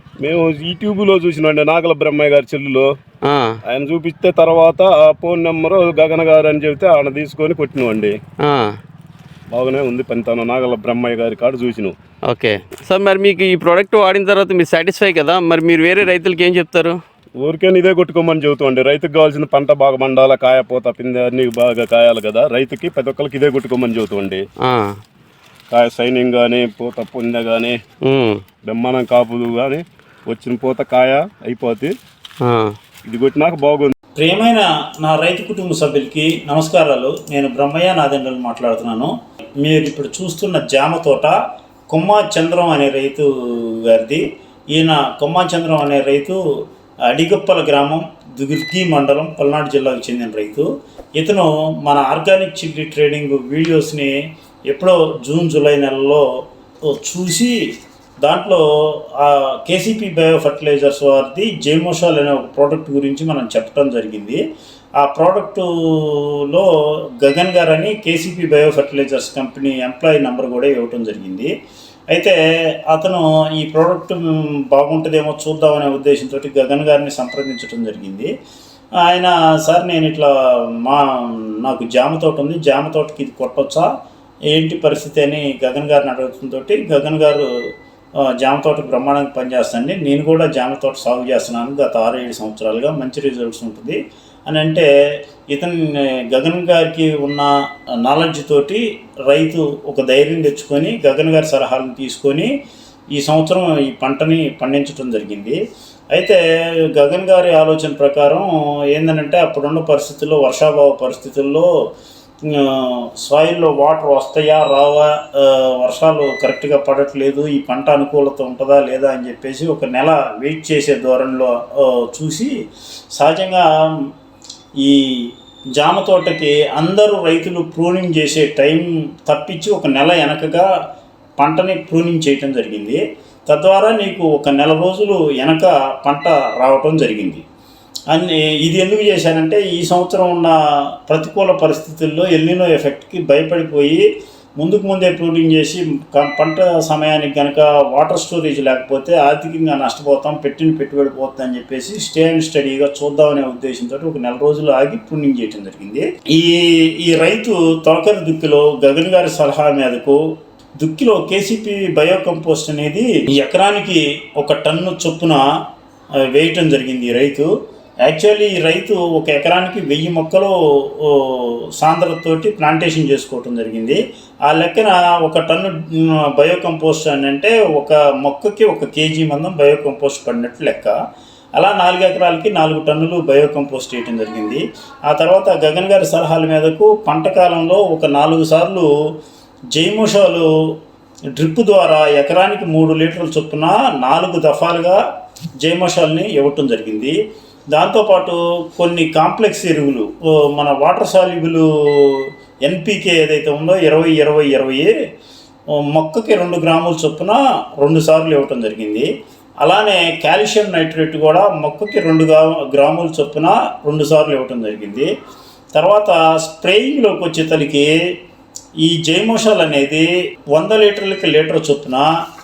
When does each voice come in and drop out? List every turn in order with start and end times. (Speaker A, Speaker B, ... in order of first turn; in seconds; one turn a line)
Speaker A: 0.2-2.9
Speaker B: 3.2-3.6
Speaker A: 3.6-8.2
Speaker B: 8.4-8.8
Speaker A: 9.5-11.9
Speaker B: 12.2-17.0
Speaker A: 17.4-24.4
Speaker B: 24.6-25.0
Speaker A: 25.7-27.8
Speaker B: 28.0-28.4
Speaker A: 28.6-31.9
Speaker B: 32.4-32.7
Speaker A: 33.0-33.9
Speaker C: 34.2-41.4
Speaker C: 41.9-46.4
Speaker C: 47.1-54.2
Speaker C: 54.7-56.3
Speaker C: 56.9-57.6
Speaker C: 58.2-64.4
Speaker C: 65.0-66.7
Speaker C: 67.2-71.5
Speaker C: 72.1-78.3
Speaker C: 79.0-83.9
Speaker C: 84.5-87.5
Speaker C: 88.4-94.9
Speaker C: 95.5-97.5
Speaker C: 98.0-102.5
Speaker C: 103.1-105.6
Speaker C: 106.1-106.4
Speaker C: 107.0-111.7
Speaker C: 112.4-122.5
Speaker C: 123.1-124.1
Speaker C: 124.8-130.7
Speaker C: 131.4-137.4
Speaker C: 138.1-144.0
Speaker C: 144.6-165.5
Speaker C: 166.3-167.5
Speaker C: 168.0-180.9
Speaker C: 181.6-188.9
Speaker C: 189.7-190.5
Speaker C: 191.4-195.0
Speaker C: 195.6-197.2
Speaker C: 197.7-204.9
Speaker C: 205.8-209.1
Speaker C: 209.6-215.1
Speaker C: 215.7-218.0
Speaker C: 218.8-222.1